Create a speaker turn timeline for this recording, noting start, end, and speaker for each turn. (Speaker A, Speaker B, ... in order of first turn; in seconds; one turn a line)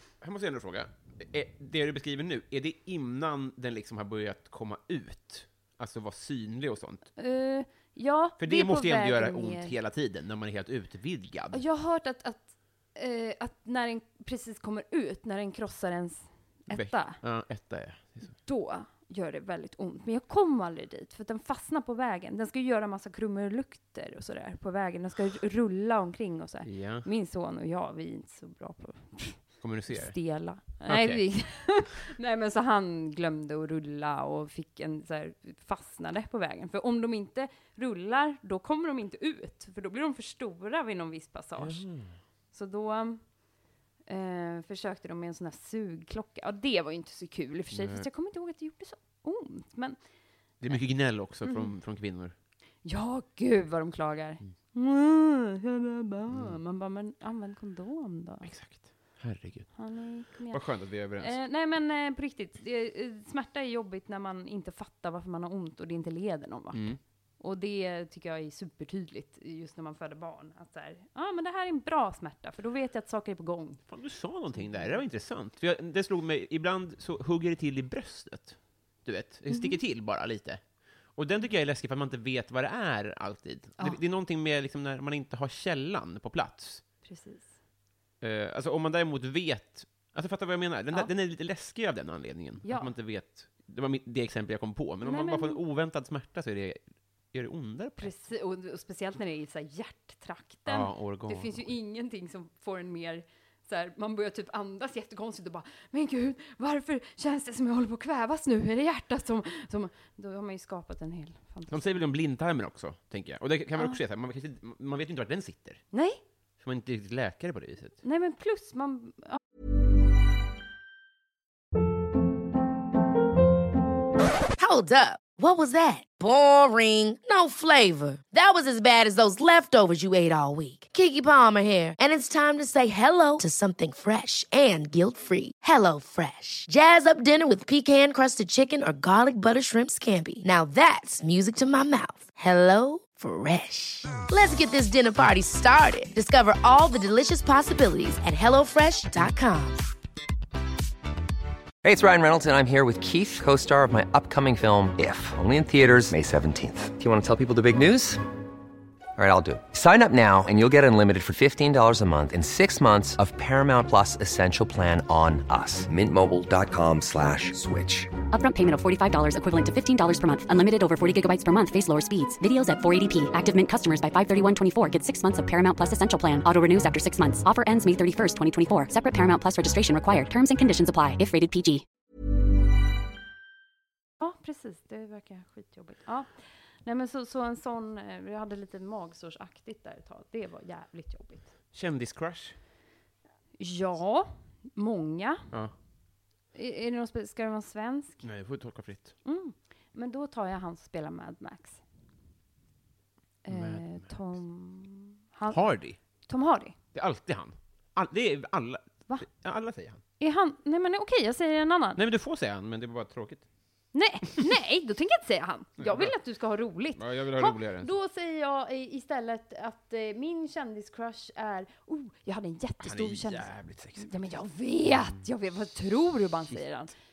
Speaker A: 0.2-7.1
Speaker B: 7.2-9.8
Speaker A: 8.4-11.6
Speaker B: 11.5-17.2
Speaker A: 16.7-18.4
Speaker B: 18.4-41.9
Speaker A: 26.6-27.1
Speaker A: 29.6-31.2
Speaker A: 41.6-42.2
Speaker B: 42.5-43.3
Speaker B: 44.1-50.0
Speaker A: 47.7-48.1
Speaker A: 50.6-52.3
Speaker B: 51.5-51.7
Speaker B: 52.8-58.5
Speaker A: 56.3-56.6
Speaker A: 58.4-59.8
Speaker B: 59.8-60.6
Speaker A: 60.5-61.4
Speaker B: 61.2-73.8
Speaker A: 66.7-67.0
Speaker A: 73.9-80.6
Speaker B: 74.5-75.0
Speaker B: 79.5-79.8
Speaker A: 81.1-86.8
Speaker B: 87.0-87.5
Speaker A: 88.2-96.8
Speaker B: 92.6-92.9
Speaker B: 95.0-95.6
Speaker A: 97.3-98.2
Speaker B: 98.0-111.9
Speaker A: 100.7-101.7
Speaker A: 111.7-115.8
Speaker B: 115.9-116.2
Speaker A: 116.6-118.0
Speaker B: 118.0-119.4
Speaker C: 124.6-149.8
Speaker D: 151.8-158.2
Speaker D: 159.2-168.1
Speaker E: 168.3-181.8
Speaker B: 184.2-191.5
Speaker A: 191.7-192.6
Speaker B: 193.6-195.5
Speaker B: 196.5-198.2
Speaker A: 198.2-199.2
Speaker B: 199.2-201.8
Speaker B: 203.4-206.8
Speaker A: 203.5-204.4
Speaker A: 205.5-206.0
Speaker A: 206.9-210.0
Speaker B: 210.2-212.0
Speaker A: 212.0-213.5
Speaker B: 213.9-226.9
Speaker A: 215.8-216.1
Speaker A: 216.9-217.9
Speaker A: 222.8-224.1